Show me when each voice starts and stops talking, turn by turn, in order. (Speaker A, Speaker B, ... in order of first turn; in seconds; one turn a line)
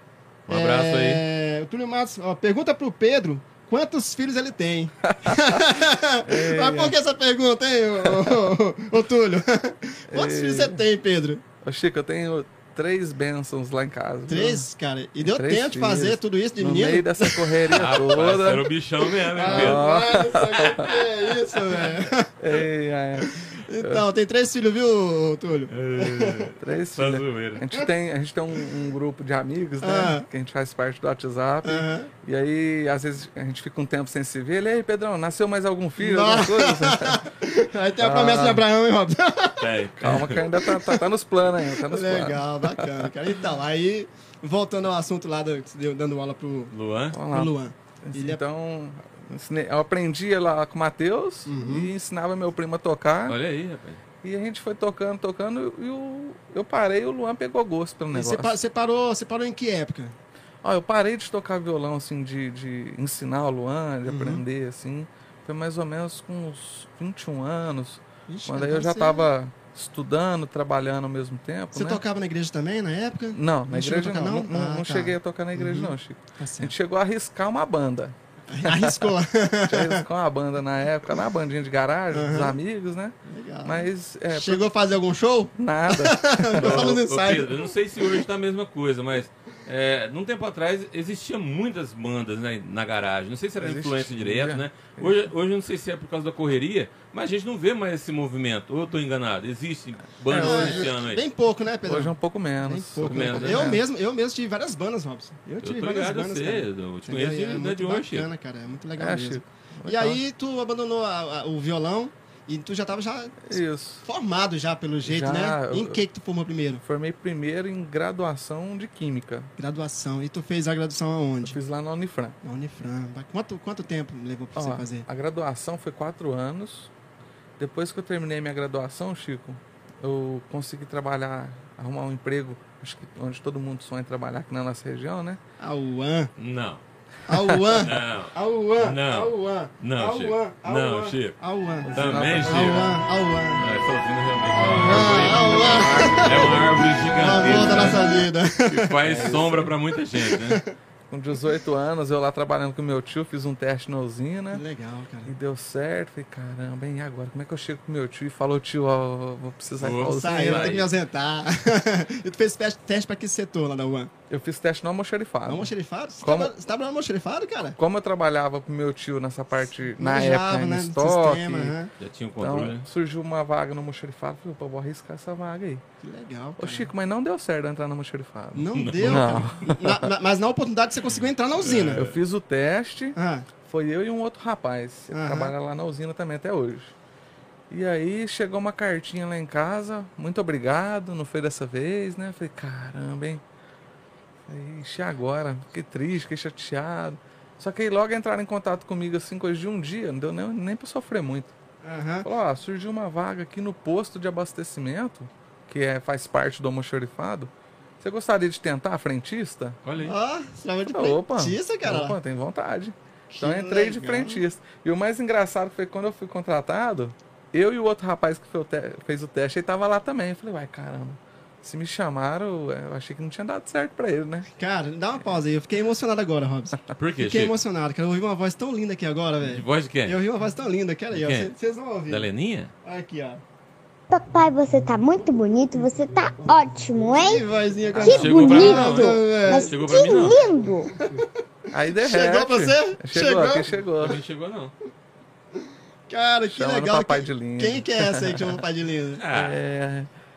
Speaker A: 0.5-1.2
Speaker B: 0.5-11.4
Speaker C: 5.1-5.7
Speaker C: 6.2-7.0
Speaker C: 8.0-8.5
Speaker C: 10.1-10.8
Speaker C: 11.6-14.7
Speaker B: 14.3-17.6
Speaker C: 15.2-18.7
Speaker A: 17.7-19.9
Speaker B: 19.2-22.6
Speaker C: 19.4-21.1
Speaker C: 22.4-24.1
Speaker B: 23.2-26.5
Speaker A: 25.7-27.6
Speaker C: 26.6-37.3
Speaker B: 29.8-30.2
Speaker B: 31.6-32.1
Speaker B: 36.0-41.0
Speaker C: 38.0-38.6
Speaker A: 39.6-40.5
Speaker C: 40.0-43.1
Speaker B: 41.8-46.7
Speaker A: 46.7-47.2
Speaker C: 47.1-53.4
Speaker B: 47.3-48.4
Speaker B: 51.5-51.9
Speaker A: 53.3-54.0
Speaker C: 54.2-58.5
Speaker B: 58.1-60.2
Speaker C: 60.6-72.0
Speaker B: 64.1-64.4
Speaker B: 68.3-69.3
Speaker B: 71.7-76.7
Speaker C: 73.3-79.2
Speaker B: 78.5-80.0
Speaker C: 79.7-84.7
Speaker B: 82.1-82.5
Speaker B: 83.3-87.7
Speaker C: 85.6-87.0
Speaker A: 86.5-101.2
Speaker C: 93.6-95.3
Speaker C: 100.3-100.9
Speaker B: 100.3-116.8
Speaker C: 101.8-103.8
Speaker A: 103.0-103.8
Speaker A: 105.6-108.3
Speaker C: 109.0-110.2
Speaker C: 113.5-114.1
Speaker C: 115.0-116.0
Speaker C: 116.8-119.5
Speaker B: 119.6-121.6
Speaker C: 121.4-122.4
Speaker B: 122.4-125.1
Speaker C: 124.5-126.9
Speaker C: 127.6-135.4
Speaker B: 135.6-136.3
Speaker A: 136.4-136.8
Speaker B: 137.3-143.6
Speaker C: 137.3-137.9
Speaker A: 137.8-141.4
Speaker C: 141.8-143.0
Speaker A: 141.9-143.0
Speaker A: 143.6-148.1
Speaker B: 144.7-146.6
Speaker C: 145.0-146.7
Speaker B: 147.2-149.6
Speaker C: 147.5-148.0
Speaker A: 148.7-150.6
Speaker C: 149.0-149.7
Speaker B: 150.2-150.7
Speaker C: 151.1-154.6
Speaker B: 154.5-155.3
Speaker C: 155.2-160.8
Speaker A: 159.8-160.9
Speaker B: 160.0-164.1
Speaker C: 164.3-166.5
Speaker B: 165.5-167.8
Speaker C: 167.8-171.8
Speaker B: 170.0-171.9
Speaker A: 172.0-172.8
Speaker C: 172.4-175.8
Speaker B: 176.0-176.9
Speaker C: 176.6-180.1
Speaker B: 178.6-182.1
Speaker A: 178.7-179.5
Speaker A: 181.1-182.2
Speaker C: 181.9-186.9
Speaker B: 183.2-183.5
Speaker B: 185.1-185.5
Speaker C: 187.7-193.4
Speaker C: 194.5-201.6
Speaker B: 201.8-202.3
Speaker C: 202.2-209.8
Speaker A: 209.8-210.2
Speaker B: 210.0-212.2
Speaker C: 210.9-224.5
Speaker B: 213.3-214.4
Speaker B: 224.6-232.3
Speaker A: 227.0-227.6
Speaker A: 229.4-230.2
Speaker A: 231.1-231.5
Speaker A: 232.1-232.7
Speaker B: 232.8-233.4
Speaker D: 234.1-237.4
Speaker B: 237.2-239.9
Speaker D: 237.9-241.0
Speaker A: 238.0-240.4
Speaker C: 241.7-244.2
Speaker B: 241.9-243.7
Speaker A: 243.9-244.7
Speaker B: 246.1-249.2
Speaker C: 246.5-248.6
Speaker A: 249.1-249.6
Speaker C: 249.3-250.1